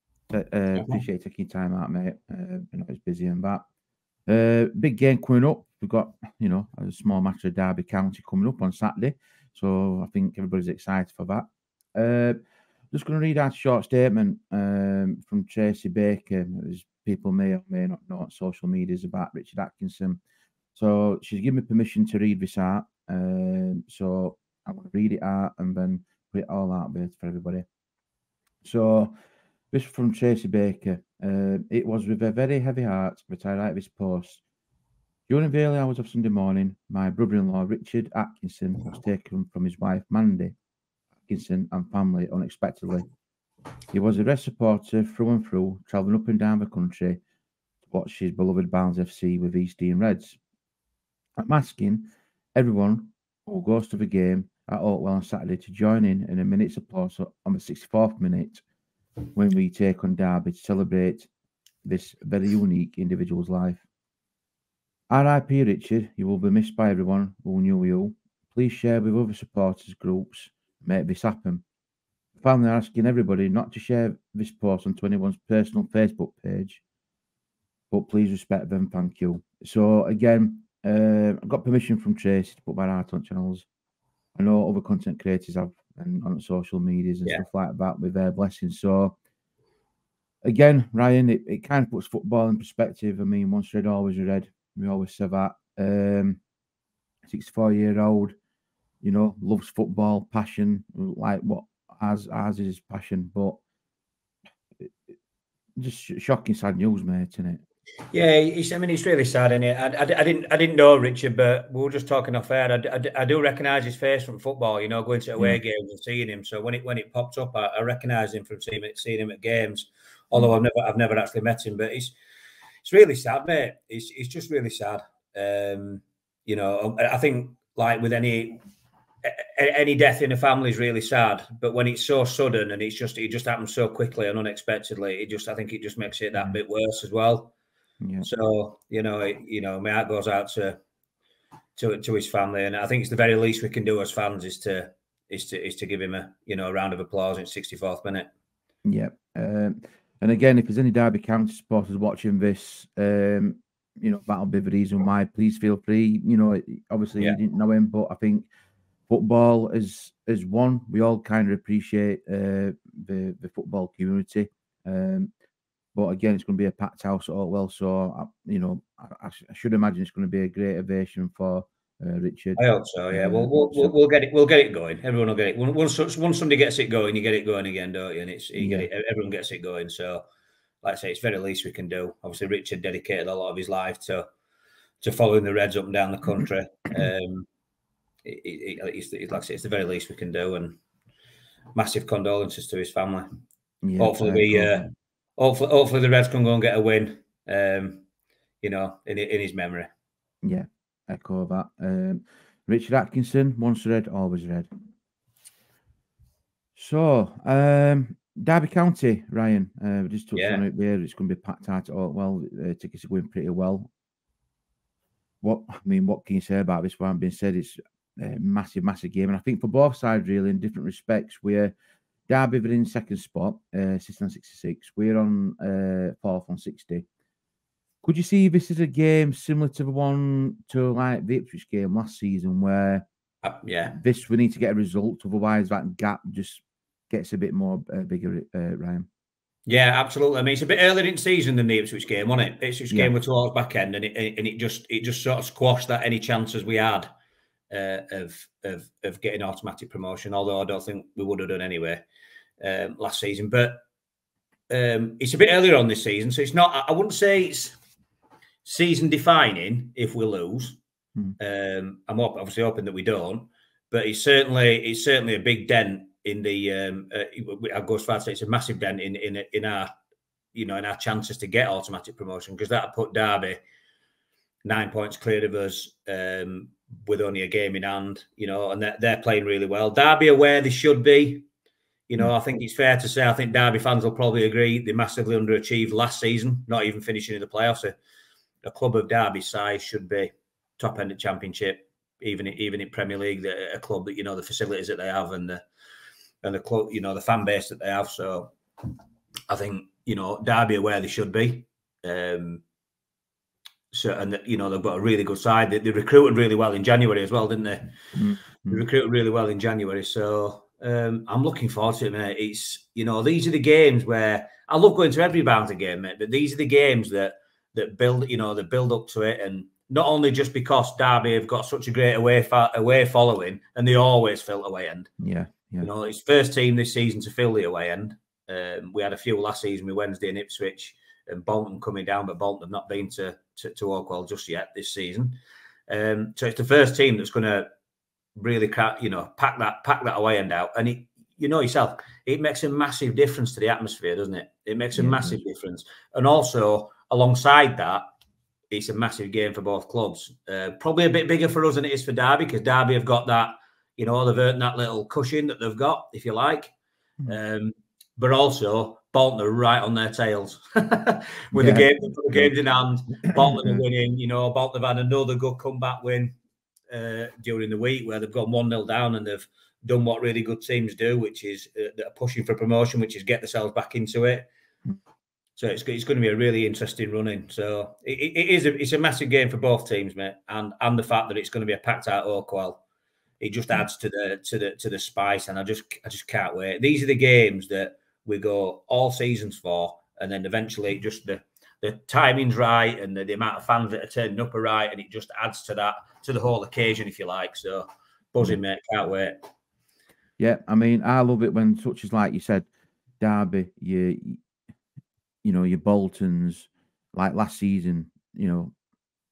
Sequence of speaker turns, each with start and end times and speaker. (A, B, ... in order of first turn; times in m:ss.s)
0:00.3-0:03.6 A
0:00.7-0:01.0 B
0:04.3-0:12.4 A
0:12.9-0:20.2 A
0:20.8-0:27.7 A
0:28.6-0:29.1 A
0:29.7-0:34.4 A
0:35.3-0:40.5 A
0:41.3-0:43.1 A
0:43.9-0:47.2 A
0:47.9-0:50.4 A
0:51.4-0:58.6 A
0:59.4-1:01.3 A
1:01.8-1:03.8 A
1:05.1-1:11.6 A
1:12.4-1:16.8 A
1:17.9-1:23.7 A
1:24.4-1:29.2 A
1:30.4-1:36.4 A
1:37.2-1:38.4 A
1:39.0-1:43.6 A
1:45.8-1:47.6 A
1:48.1-2:02.2 B
2:02.8-2:08.6 B
2:09.2-2:17.5 B
2:18.2-2:20.8 B
2:21.8-2:28.3 B
2:28.8-2:38.5 A
2:39.1-2:45.3 A
2:46.0-2:52.6 A
2:52.6-3:00.2 B
2:53.1-2:54.0 A
2:58.6-2:58.9 A
3:00.8-3:04.3 B
3:05.0-3:07.5 B
3:08.2-3:10.8 B
3:11.8-3:13.3 B
3:13.8-3:14.9 A
3:14.0-3:18.0 B
3:18.6-3:19.9 B
3:20.4-3:24.7 A
3:26.8-3:33.9 A
3:30.4-3:30.6 B
3:35.4-3:41.7 A
3:42.3-3:47.0 A
3:48.0-3:53.0 A
3:53.4-3:54.0 B
3:53.9-3:59.1 A
3:59.7-4:07.1 B
4:07.7-4:12.0 B
4:12.6-4:13.8 B
4:14.7-4:17.8 B
4:18.6-4:20.8 B
4:21.4-4:29.9 B
4:30.5-4:33.6 B
4:34.6-4:41.5 B
4:42.1-4:47.9 B
4:48.6-4:55.6 B
4:56.4-4:58.5 B
4:59.5-5:02.6 B
5:03.9-5:07.9 B
5:08.1-5:08.8 A
5:08.7-5:25.1 B
5:25.2-5:25.9 A
5:25.8-5:37.7 B
5:38.4-5:48.0 B
5:45.0-5:45.4 A
5:48.7-5:56.7 B
5:57.3-6:06.4 B
6:01.5-6:02.6 A
6:03.2-6:03.8 A
6:06.9-6:14.5 B
6:15.6-6:22.8 B
6:23.4-6:39.5 B
6:40.4-6:42.7 A
6:43.2-6:44.4 A
6:45.4-6:48.7 A